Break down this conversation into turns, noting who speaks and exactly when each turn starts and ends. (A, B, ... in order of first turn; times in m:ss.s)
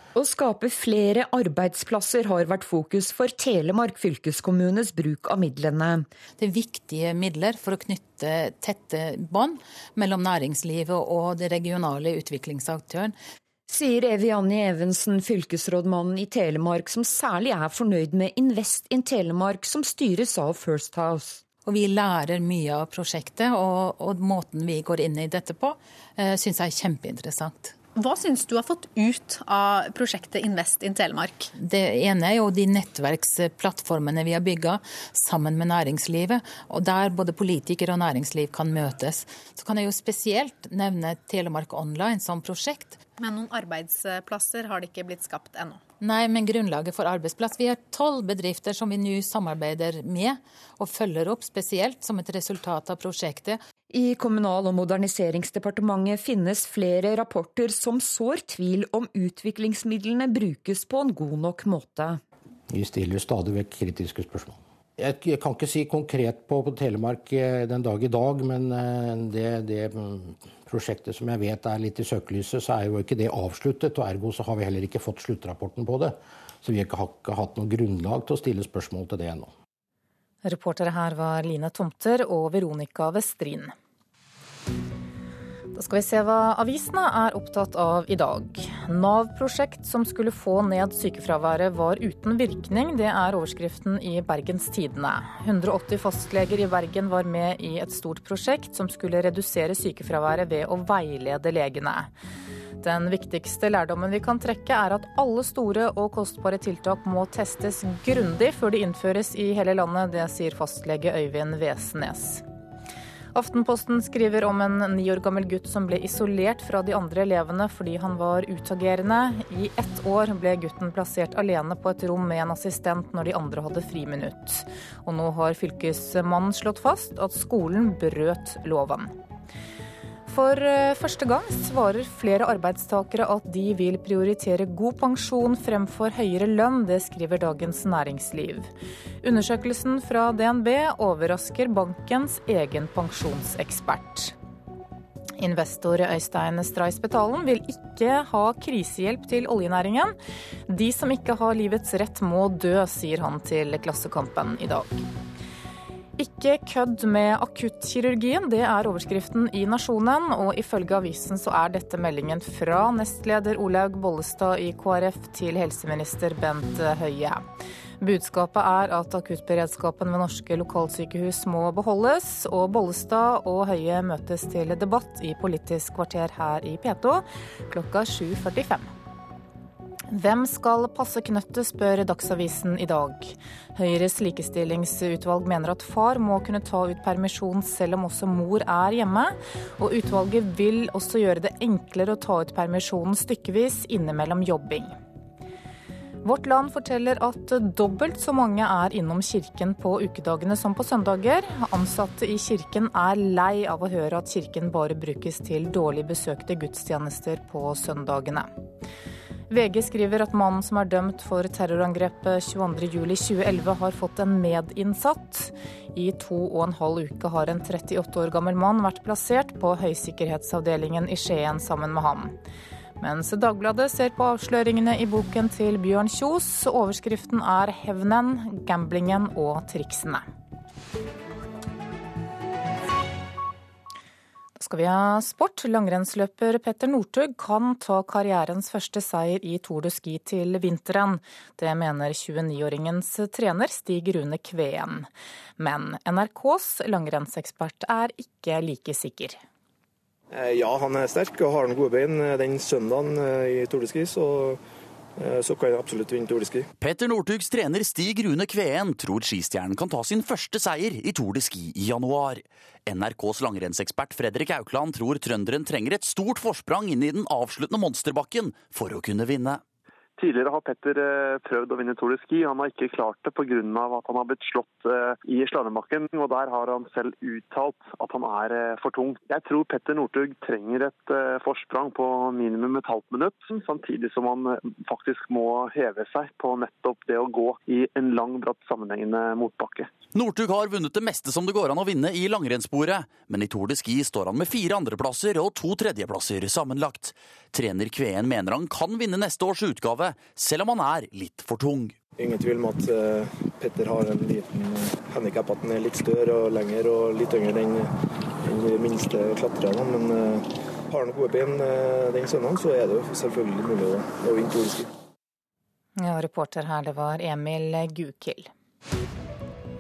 0:00.2-0:06.1 A
0:06.4-0:13.2 B
0:13.7-0:21.4 A
0:21.6-0:27.8 B
0:27.9-0:31.5 C
0:31.5-0:43.0 B
0:43.2-0:45.8 C
0:46.0-0:53.6 B
0:53.9-1:02.2 A
1:02.7-1:19.5 D
1:20.4-1:23.7 E
1:25.7-1:42.1 E
1:42.8-1:52.4 E
1:53.3-2:09.1 E
2:10.3-2:18.7 E
2:19.2-2:24.4 E
2:25.4-2:30.2 E
2:30.7-2:35.1 E
2:36.2-2:47.4 E
2:48.0-2:58.9 E
3:00.1-3:14.9 E
3:16.2-3:28.5 E
3:29.5-3:42.4 E
3:43.0-3:50.2 E
3:54.6-4:05.1 E
4:05.6-4:09.4 E
4:10.3-4:14.6 F
4:15.2-4:16.7 F
4:16.8-4:29.6 G
4:30.2-4:49.9 H
4:50.1-5:02.0 G
5:02.2-5:07.9 F
5:08.4-5:14.9 F
5:16.0-5:18.5 E